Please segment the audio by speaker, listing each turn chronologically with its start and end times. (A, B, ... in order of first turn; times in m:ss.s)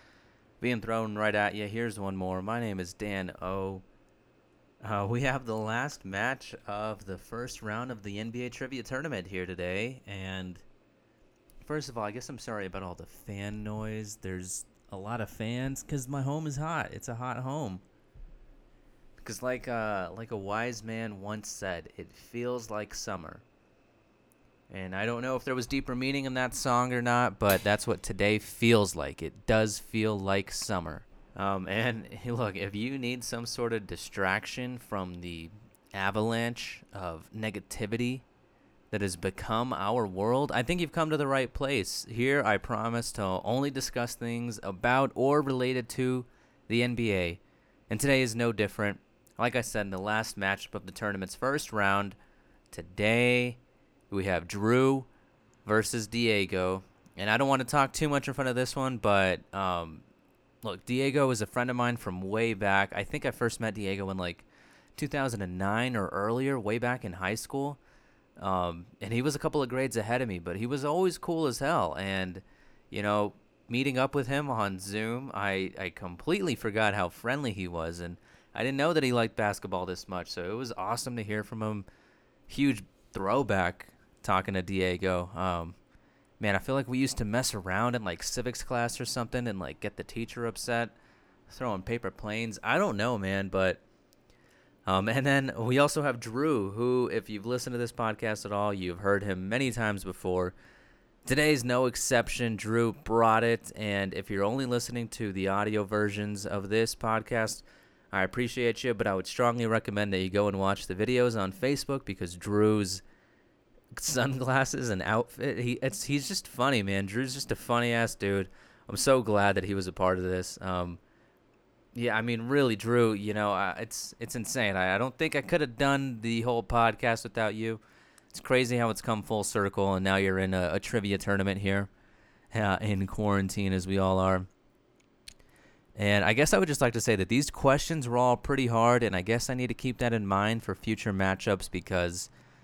0:00.6-0:03.8 A
0:04.8-0:10.6 A
0:11.6-0:17.8 A
0:19.2-0:23.4 A
0:24.7-0:38.2 A
0:38.9-0:52.2 A
0:52.7-0:53.6 A
0:54.1-0:55.1 A
0:55.6-1:00.0 A
1:00.6-1:07.8 A
1:08.4-1:21.8 A
1:22.5-1:25.8 A
1:26.4-1:30.9 A
1:31.5-1:33.8 A
1:34.8-1:40.6 A
1:41.2-1:53.0 A
1:54.0-2:01.0 A
2:01.9-2:07.8 A
2:08.3-2:11.9 A
2:12.5-2:14.5 A
2:16.0-2:22.3 A